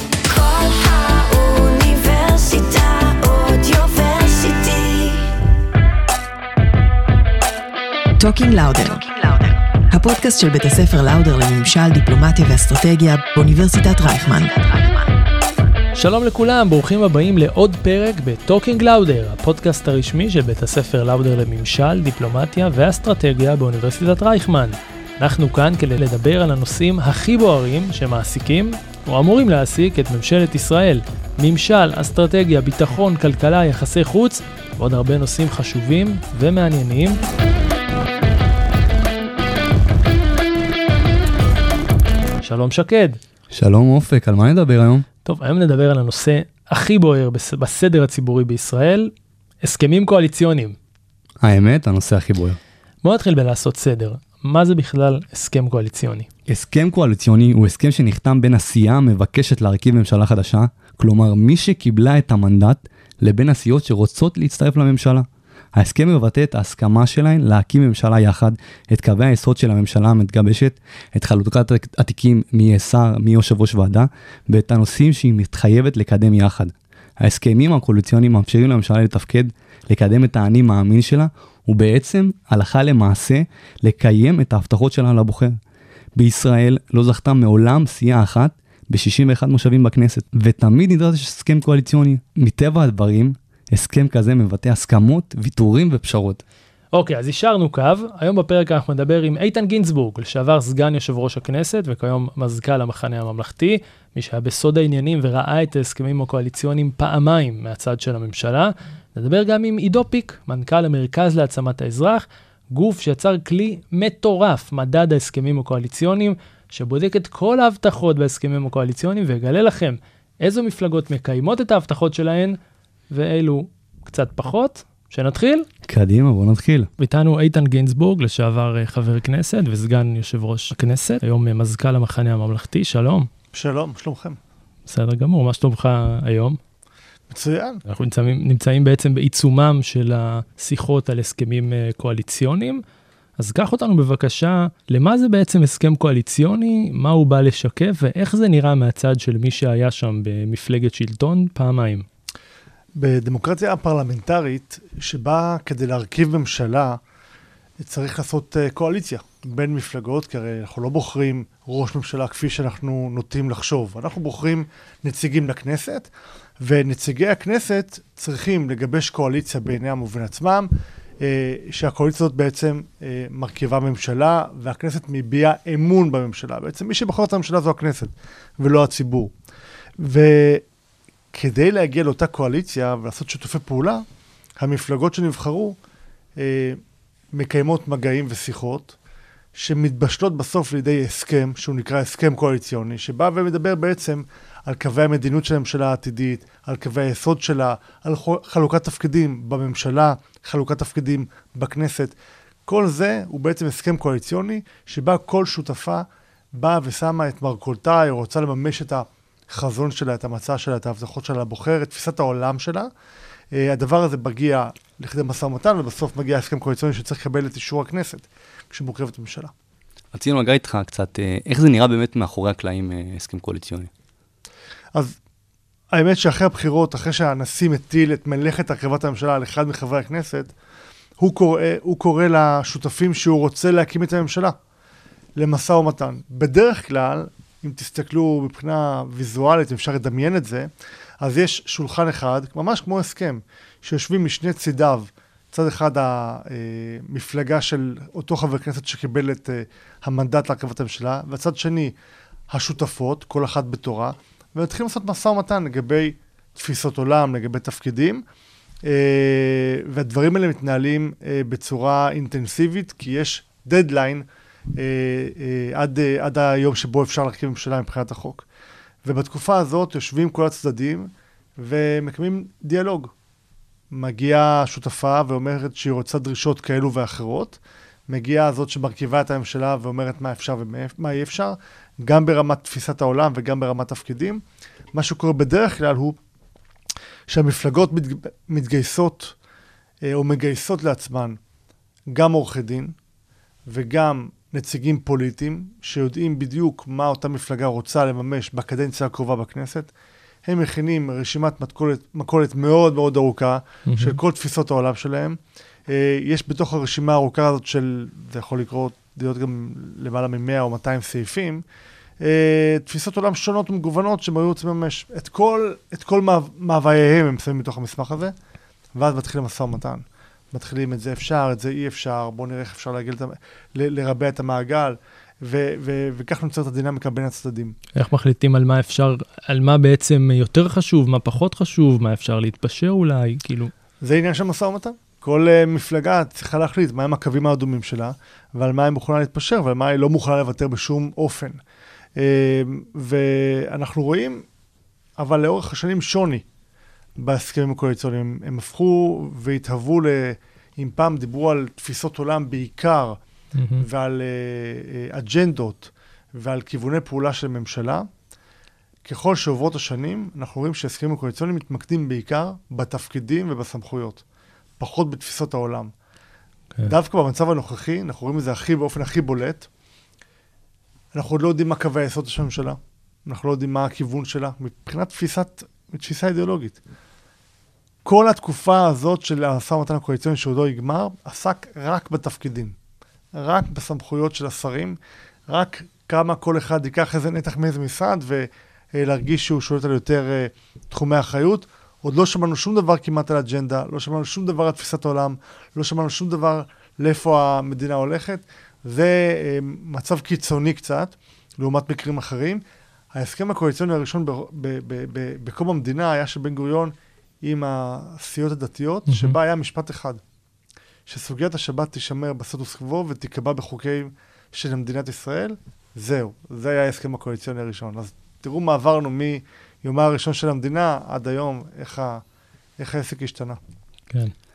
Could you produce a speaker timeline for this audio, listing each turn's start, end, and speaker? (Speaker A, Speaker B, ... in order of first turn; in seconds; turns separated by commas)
Speaker A: 0.2-5.3, Speaker B: 8.2-15.1, Speaker C: 15.9-37.2, Speaker C: 42.4-43.2, Speaker D: 43.5-45.0, Speaker C: 45.2-49.1, Speaker C: 49.6-50.8, Speaker D: 51.4-52.6, Speaker C: 53.0-56.3, Speaker D: 56.5-85.6, Speaker D: 86.2-96.4, Speaker C: 96.9-122.6, Speaker C: 123.1-125.7, Speaker D: 125.9-126.9, Speaker C: 127.0-133.3, Speaker E: 133.5-134.4, Speaker C: 134.9-136.6, Speaker E: 137.3-137.8, Speaker C: 137.9-142.8, Speaker C: 143.4-152.0, Speaker E: 153.0-157.0, Speaker E: 157.8-179.3, Speaker E: 180.0-180.6, Speaker E: 181.3-184.0, Speaker E: 184.6-185.8, Speaker E: 186.4-186.8, Speaker E: 187.3-188.9, Speaker E: 189.5-212.9, Speaker E: 213.5-219.5, Speaker D: 220.1-223.9, Speaker E: 225.9-230.5, Speaker E: 231.2-234.6, Speaker E: 235.4-240.7, Speaker E: 241.2-251.9, Speaker E: 252.5-258.2, Speaker E: 258.8-268.4, Speaker E: 269.0-273.1, Speaker E: 273.9-284.4, Speaker E: 284.9-286.2, Speaker E: 287.3-289.4, Speaker E: 290.0-291.4, Speaker E: 292.1-292.9, Speaker E: 293.6-299.9, Speaker E: 300.4-311.6, Speaker C: 303.9-304.2, Speaker E: 312.2-318.3, Speaker E: 318.9-327.8, Speaker C: 327.9-333.7, Speaker E: 334.0-341.6, Speaker E: 342.1-344.4, Speaker E: 345.2-346.4, Speaker E: 347.2-353.2, Speaker C: 353.5-353.9, Speaker E: 353.8-358.1, Speaker E: 359.0-364.2, Speaker E: 364.8-365.9, Speaker E: 366.8-369.7, Speaker E: 371.1-376.8, Speaker E: 378.0-382.7, Speaker E: 383.3-385.0, Speaker E: 385.5-410.2, Speaker C: 409.1-409.4, Speaker E: 411.1-422.2, Speaker E: 422.8-423.6